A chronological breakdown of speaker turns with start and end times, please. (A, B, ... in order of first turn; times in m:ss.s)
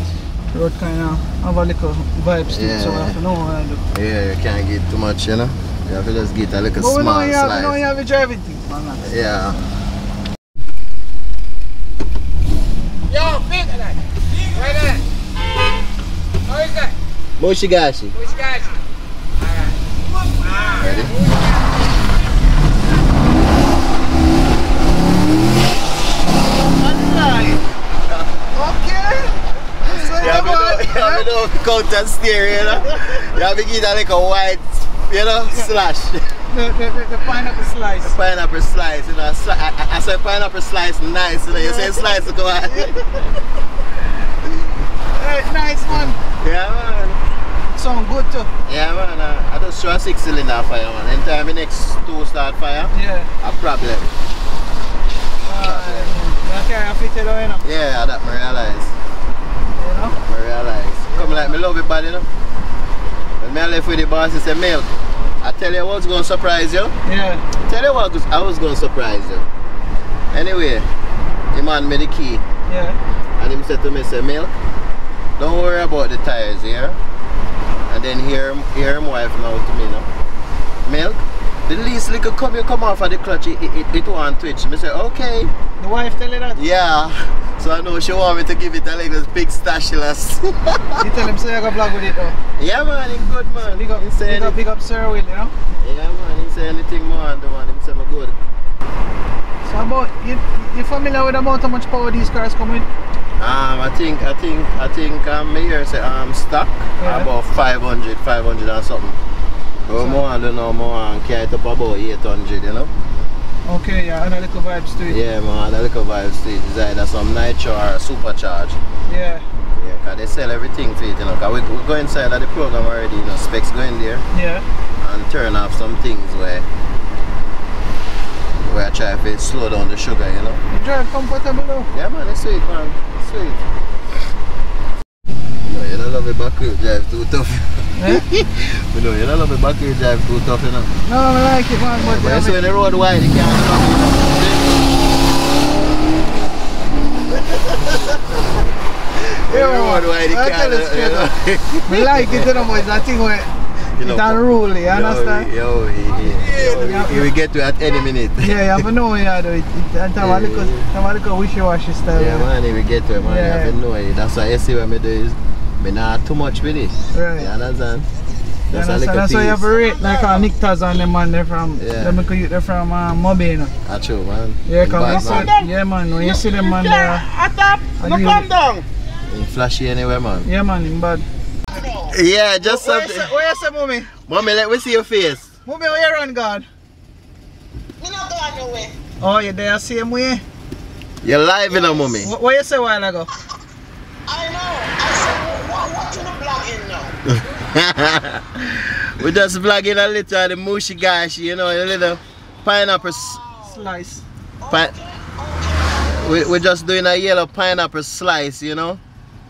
0:00.5-0:03.8 A
0:02.5-0:03.2 B
0:03.9-0:07.8 B
0:06.8-0:09.1 A
0:09.0-0:09.6 B
0:13.1-0:15.0 C
0:16.5-0:16.9 C
0:17.4-0:18.2 B
0:18.1-0:18.8 C
0:19.4-0:21.4 C
0:20.8-0:21.2 B
0:26.6-0:27.6 A
0:28.5-0:31.2 A
0:29.8-0:36.4 B
0:36.5-0:38.1 A
0:38.0-0:42.9 B
0:41.5-0:42.1 A
0:42.6-0:43.0 A
0:45.1-0:46.2 A
0:45.9-0:47.2 B
0:47.8-0:48.5 A
0:48.6-0:54.1 B
0:52.9-0:53.3 A
0:55.4-0:56.2 B
0:55.4-0:57.6 A
0:57.6-0:59.0 B
0:59.8-1:00.2 A
1:00.2-1:02.3 B
1:01.1-1:01.6 A
1:03.4-1:07.0 B
1:07.0-1:07.4 A
1:07.6-1:09.5 B
1:10.3-1:10.9 B
1:11.5-1:12.4 B
1:12.7-1:13.0 A
1:13.4-1:14.6 B
1:15.4-1:17.0 B
1:17.9-1:20.1 B
1:20.8-1:25.5 B
1:25.8-1:26.6 A
1:26.5-1:31.0 B
1:31.0-1:32.4 A
1:32.6-1:34.6 B
1:33.6-1:35.5 A
1:35.8-1:38.4 B
1:39.6-1:42.9 A
1:43.4-1:49.2 B
1:47.0-1:47.3 A
1:49.8-1:52.9 B
1:50.0-1:50.2 A
1:53.6-1:55.2 A
1:55.1-1:58.8 B
1:59.1-1:59.4 A
1:59.7-2:04.3 B
2:04.3-2:04.6 A
2:05.0-2:06.7 B
2:08.6-2:10.6 B
2:10.7-2:11.9 A
2:11.9-2:13.6 B
2:15.6-2:20.9 B
2:18.0-2:18.2 A
2:21.0-2:22.6 A
2:22.0-2:24.8 B
2:27.5-2:28.6 B
2:29.2-2:31.3 A
2:29.5-2:32.8 B
2:31.8-2:35.5 A
2:33.9-2:38.9 B
2:36.2-2:37.3 A
2:38.4-2:42.5 A
2:40.2-2:40.9 B
2:42.1-2:48.1 B
2:43.2-2:43.8 A
2:47.1-2:47.5 A
2:48.7-2:49.7 B
2:48.7-2:53.7 A
2:51.8-2:52.2 B
2:53.8-2:55.6 B
2:54.6-2:57.3 A
2:56.3-2:57.2 C
2:57.9-2:58.5 C
2:58.0-2:58.5 A
2:59.3-3:00.5 B
3:00.4-3:01.2 A
3:01.7-3:02.2 D
3:02.1-3:03.3 B
3:02.6-3:04.1 A
3:04.3-3:05.5 B
3:05.6-3:06.7 A
3:08.0-3:09.0 D
3:09.2-3:10.4 A
3:11.2-3:12.3 B
3:11.7-3:12.1 D
3:12.2-3:13.3 A
3:14.3-3:17.2 D
3:17.4-3:23.4 B
3:22.8-3:23.9 D
3:23.6-3:24.2 A
3:24.6-3:26.6 D
3:24.7-3:24.9 B
3:26.2-3:29.0 B